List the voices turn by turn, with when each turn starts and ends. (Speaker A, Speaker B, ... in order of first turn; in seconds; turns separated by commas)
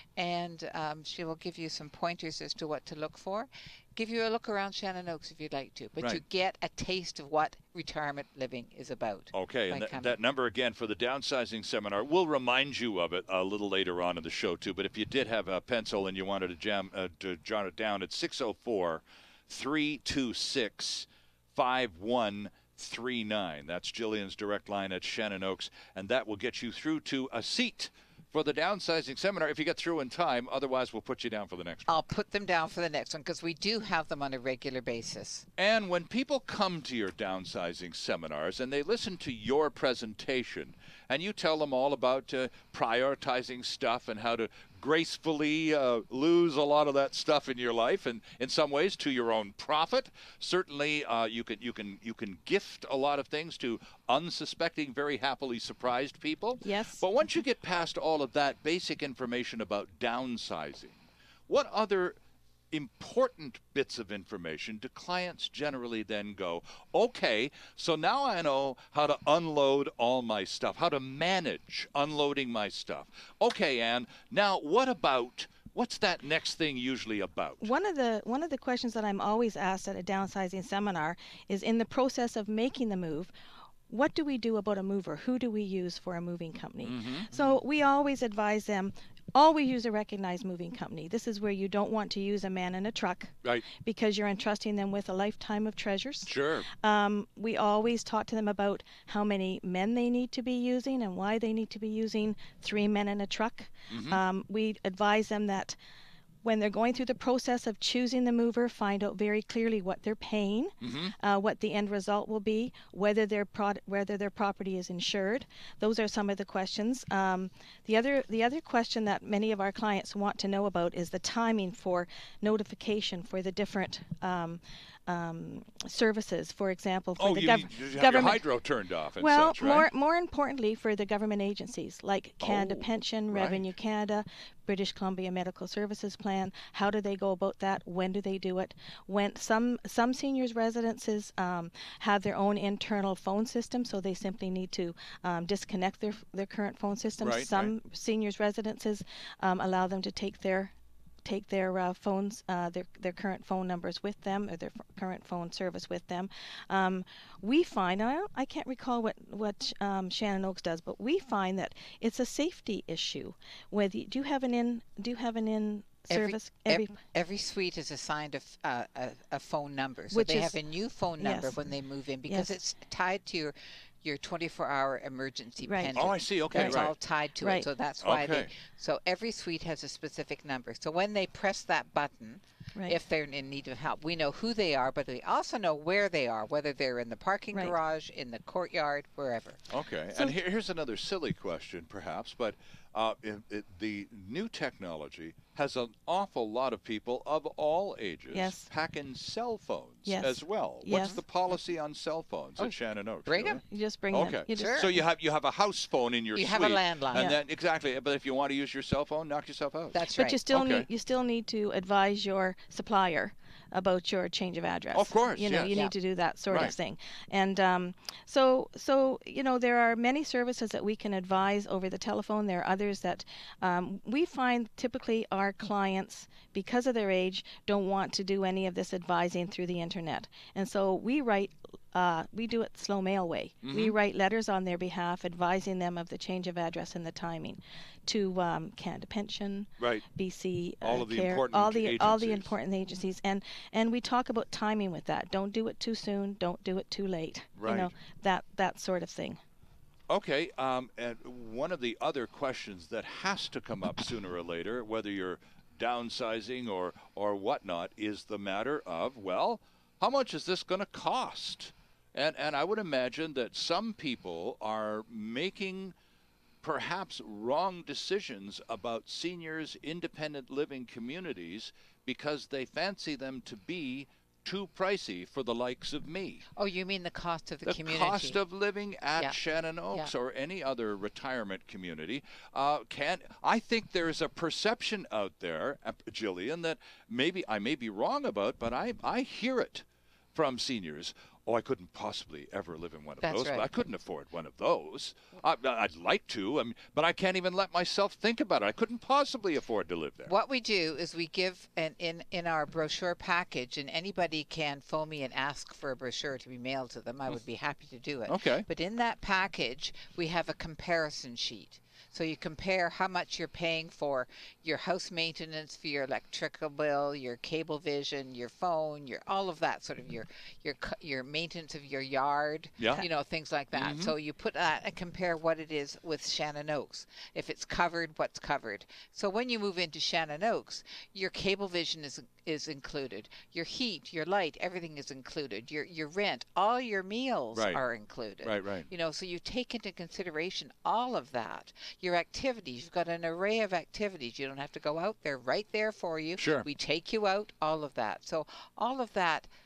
Speaker A: 0.2-10.2, Speaker B: 9.3-32.0, Speaker A: 31.9-35.5, Speaker B: 35.6-62.2, Speaker C: 56.6-57.0, Speaker B: 62.7-77.7, Speaker C: 77.6-83.3, Speaker C: 83.9-105.8, Speaker B: 86.8-87.3, Speaker A: 87.3-87.6, Speaker B: 96.3-96.7, Speaker B: 103.9-104.2, Speaker C: 106.4-128.5, Speaker B: 110.8-111.2, Speaker B: 127.2-129.9, Speaker C: 129.2-167.0, Speaker B: 132.4-133.7, Speaker B: 147.2-147.7, Speaker A: 166.1-189.6, Speaker C: 170.1-170.6, Speaker C: 171.2-171.6, Speaker C: 172.3-172.6, Speaker C: 175.6-176.8, Speaker B: 176.0-177.0, Speaker C: 177.4-177.7, Speaker B: 178.0-178.5, Speaker B: 189.7-210.9, Speaker C: 198.3-198.7, Speaker C: 200.1-201.2, Speaker A: 200.8-201.2, Speaker A: 202.6-203.6, Speaker C: 203.7-205.1, Speaker A: 204.5-204.9, Speaker A: 206.3-207.4, Speaker A: 209.9-210.5, Speaker C: 210.2-249.4, Speaker B: 214.9-215.8, Speaker B: 216.5-216.7, Speaker B: 233.6-233.9, Speaker B: 239.8-240.1, Speaker B: 240.8-242.5, Speaker B: 247.6-247.9, Speaker B: 250.1-265.9, Speaker B: 266.6-276.4, Speaker A: 276.6-278.4, Speaker B: 277.6-300.3, Speaker A: 293.2-293.8, Speaker A: 300.3-349.5, Speaker B: 308.3-308.7, Speaker B: 322.8-323.1, Speaker B: 323.7-324.1, Speaker B: 337.5-337.9, Speaker B: 338.4-338.9, Speaker B: 346.4-346.7